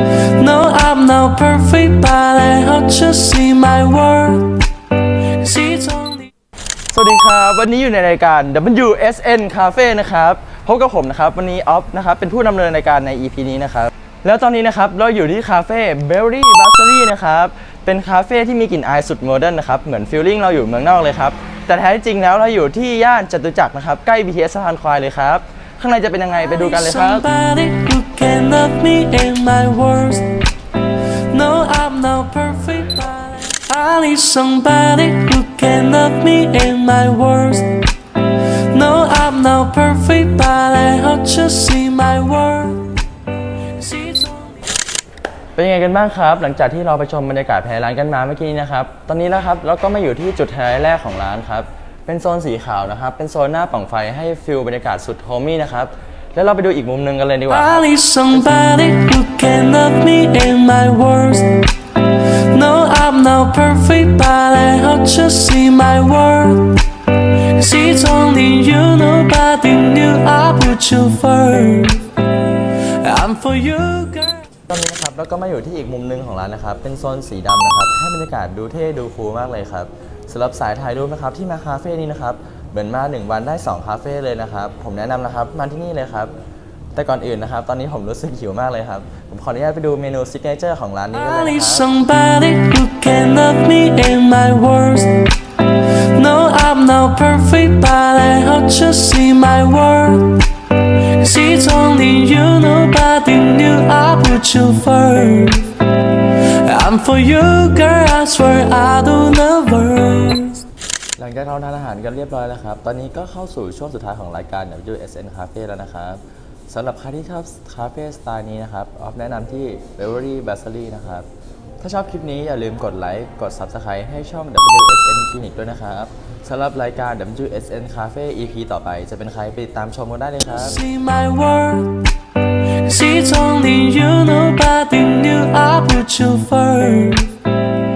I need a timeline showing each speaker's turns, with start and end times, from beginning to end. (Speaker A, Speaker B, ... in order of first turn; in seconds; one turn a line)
Speaker A: 0.2-4.6
Speaker A: 5.2-6.3
Speaker B: 6.9-27.3
Speaker A: 26.4-30.3
Speaker A: 31.1-37.8
Speaker A: 38.5-42.9
Speaker A: 43.7-44.7
Speaker B: 45.6-58.6
Speaker A: 57.5-61.6
Speaker A: 62.3-66.8
Speaker A: 67.4-72.1
Speaker A: 72.6-74.5
Speaker B: 74.7-86.3
Speaker B: 87.0-91.9
Speaker A: 91.1-95.2
Speaker A: 96.0-100.4
Speaker A: 101.0-105.8
Speaker A: 106.3-110.6
Speaker B: 111.2-121.3
Speaker B: 121.8-130.8
Speaker A: 130.6-132.1
Speaker A: 132.7-137.4